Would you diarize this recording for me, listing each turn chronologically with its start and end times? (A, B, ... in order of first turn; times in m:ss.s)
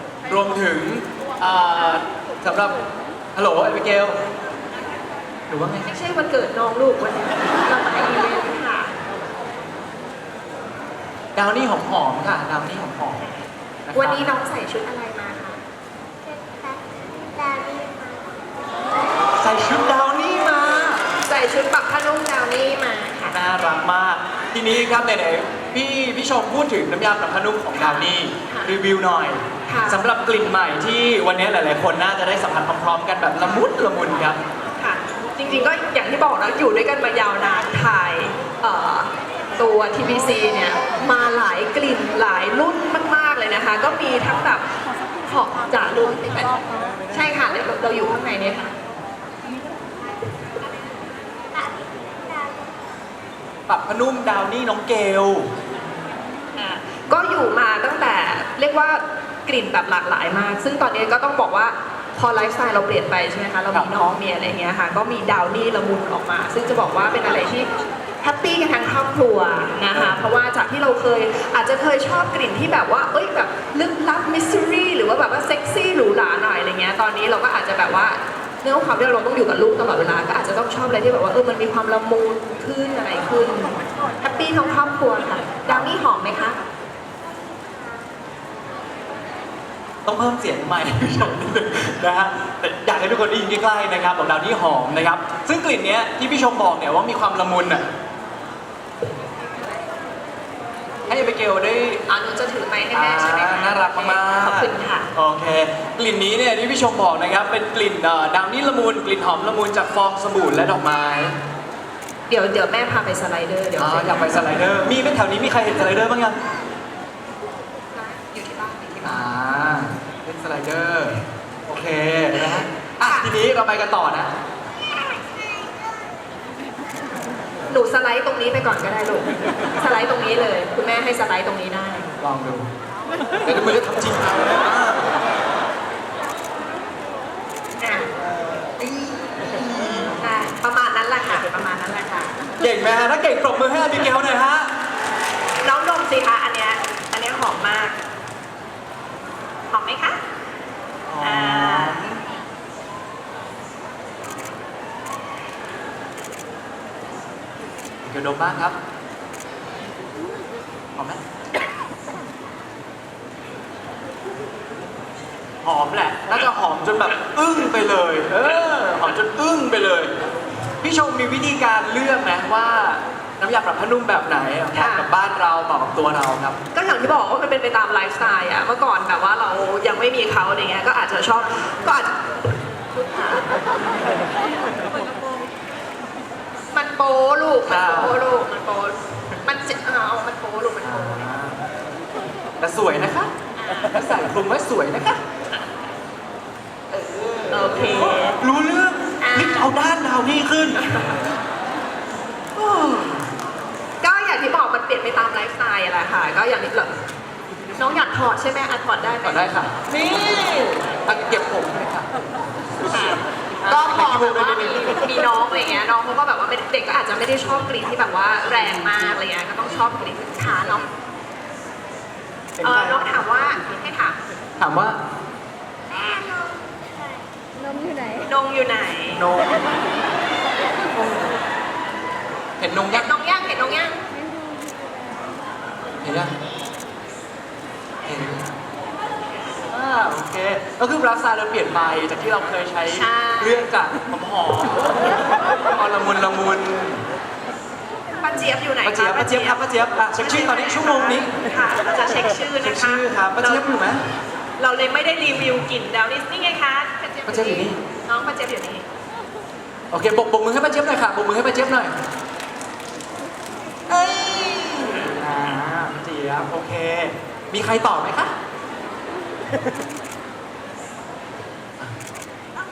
0:00.3-0:02.8 A
0:03.4-0:04.2 A
0:05.5-0:05.9 A
0:05.8-0:08.9 B
0:11.4-0:13.3 A
0:13.9-0:14.3 A
0:13.9-0:15.6 B
0:16.3-0:18.5 C
0:19.4-0:21.0 A
0:21.2-0:23.4 B
0:23.3-0:34.4 A
0:27.7-0:28.8 B
0:29.7-0:30.0 B
0:34.8-0:44.6 B
0:45.2-0:46.6 B
0:47.1-0:48.7 B
0:51.5-0:52.7 C
0:53.7-0:55.5 A
0:56.5-1:07.7 B
1:08.2-1:26.6 B
1:09.9-1:10.3 A
1:25.7-1:26.0 A
1:30.1-1:37.8 A
1:41.1-1:42.0 A
1:42.1-1:45.1 B
1:42.9-1:51.4 A
1:52.3-1:54.4 B
1:53.8-1:56.4 A
1:57.9-1:59.3 B
1:59.0-2:04.3 A
2:03.0-2:03.4 B
2:05.2-2:05.9 C
2:07.7-2:12.1 B
2:12.2-2:12.7 A
2:13.4-2:15.1 A
2:17.8-2:18.1 B
2:18.8-2:20.1 A
2:20.2-2:22.4 B
2:22.6-2:24.7 A
2:25.6-2:28.0 B
2:29.7-2:30.2 B
2:31.1-2:32.2 A
2:31.2-2:32.0 B
2:38.0-2:38.8 A
2:41.0-2:41.2 A
2:45.6-2:50.1 A
2:50.8-2:56.6 A
2:54.7-2:55.1 B
2:56.7-3:02.2 B
3:02.9-3:03.5 B
3:06.7-3:11.2 B
3:07.7-3:08.2 A
3:10.8-3:11.6 A
3:12.6-3:13.3 A
3:13.6-3:14.0 B
3:13.9-3:15.2 A
3:16.9-3:20.8 A
3:17.5-3:18.4 B
3:19.2-3:19.7 B
3:20.8-3:21.2 B
3:22.6-3:23.3 A
3:24.0-3:26.9 B
3:27.8-3:29.5 B
3:29.2-3:32.1 A
3:32.9-3:40.9 B
3:33.6-3:34.9 A
3:42.6-3:43.1 A
3:42.6-3:44.2 B
3:44.6-3:45.0 A
3:45.9-3:48.0 C
3:48.2-3:49.3 B
3:49.1-3:49.7 A
3:52.6-3:53.1 A
3:52.9-3:54.0 B
3:56.0-3:56.3 A
3:58.0-3:58.5 A
3:59.7-4:07.0 A
4:02.9-4:03.7 B
4:08.2-4:09.6 B
4:08.8-4:11.3 A
4:10.2-4:13.8 B
4:12.6-4:14.0 A
4:14.6-4:18.9 B
4:17.3-4:17.8 A
4:19.9-4:21.9 A
4:23.9-4:28.3 A